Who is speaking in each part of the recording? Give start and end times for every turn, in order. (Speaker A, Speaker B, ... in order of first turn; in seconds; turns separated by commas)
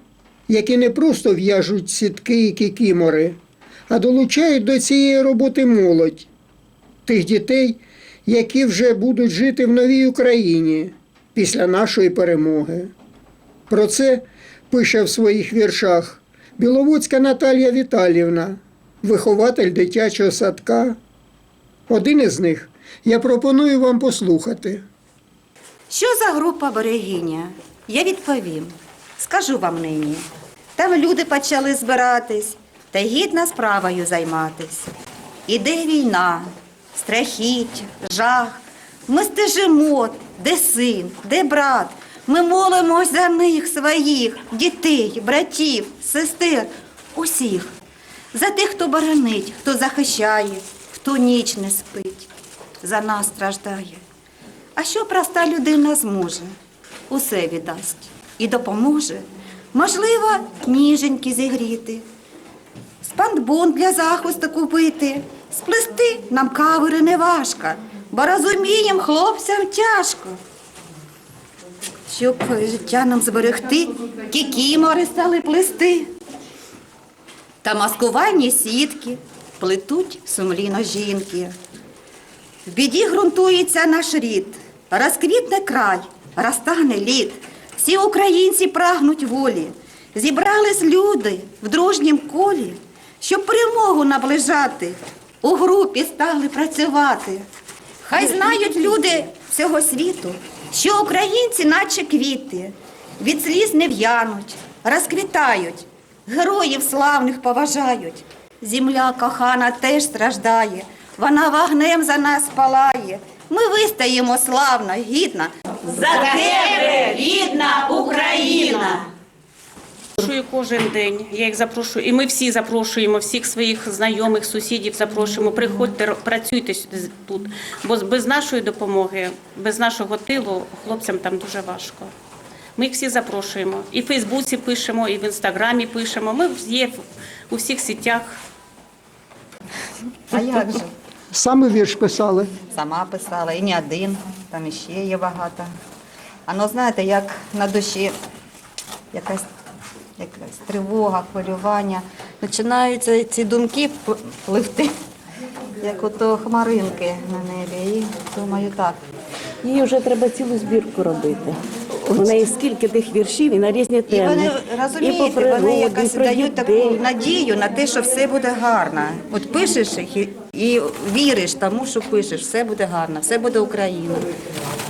Speaker A: 0.5-3.4, Speaker A: 3.9-6.3, Speaker A: 7.0-12.9, Speaker A: 13.7-21.0, Speaker A: 21.9-24.8, Speaker B: 25.9-30.2, Speaker B: 30.8-34.9, Speaker B: 35.5-47.7, Speaker B: 48.3-52.3, Speaker B: 52.8-54.0, Speaker B: 54.8-56.5, Speaker B: 57.1-62.0, Speaker B: 63.0-70.4, Speaker B: 72.1-76.1, Speaker B: 77.6-81.5, Speaker B: 82.7-97.4, Speaker B: 98.0-119.0, Speaker C: 120.2-132.1, Speaker C: 132.8-138.4, Speaker B: 140.3-140.9, Speaker A: 141.3-142.6, Speaker B: 142.6-145.7, Speaker B: 146.4-148.1, Speaker B: 149.1-149.4, Speaker B: 150.2-154.9, Speaker B: 155.8-159.0, Speaker D: 159.6-167.0, Speaker B: 164.1-174.2